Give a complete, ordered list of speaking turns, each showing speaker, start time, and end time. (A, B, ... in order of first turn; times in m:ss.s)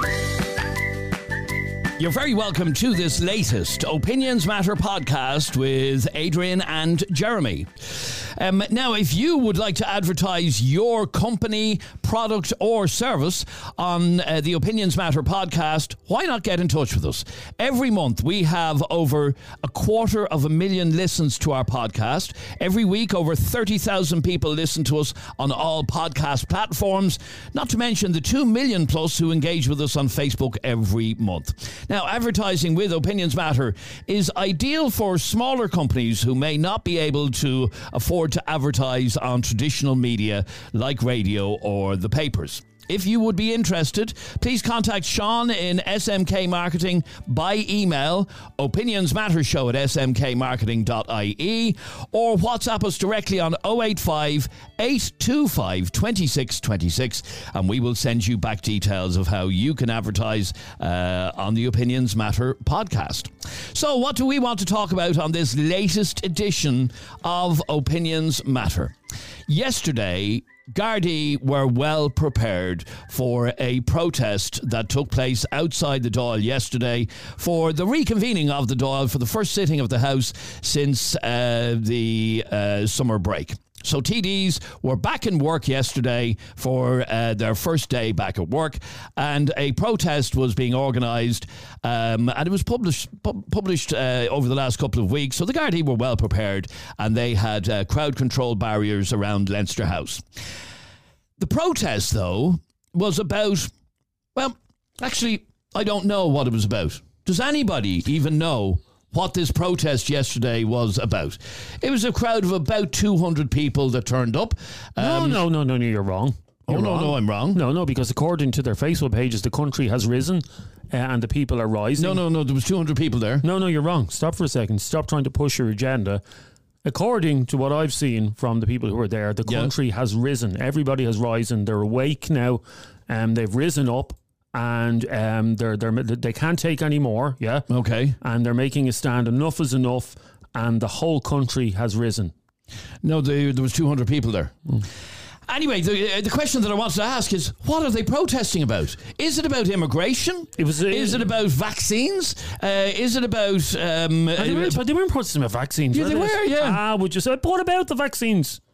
0:02.0-1:08.9 A
1:09.5-1:40.2 A
1:41.4-1:43.7 A
1:44.4-1:55.4 A
1:55.0-2:02.2 B
1:56.7-1:57.6 A
2:02.0-2:03.4 A
2:03.4-2:06.2 B
2:06.8-2:17.7 B
2:17.7-2:18.2 A
2:18.2-2:22.3 B
2:23.0-2:24.6 A
2:25.5-2:34.8 A
2:30.6-2:31.3 B
2:34.4-2:38.6 B
2:35.9-2:36.8 A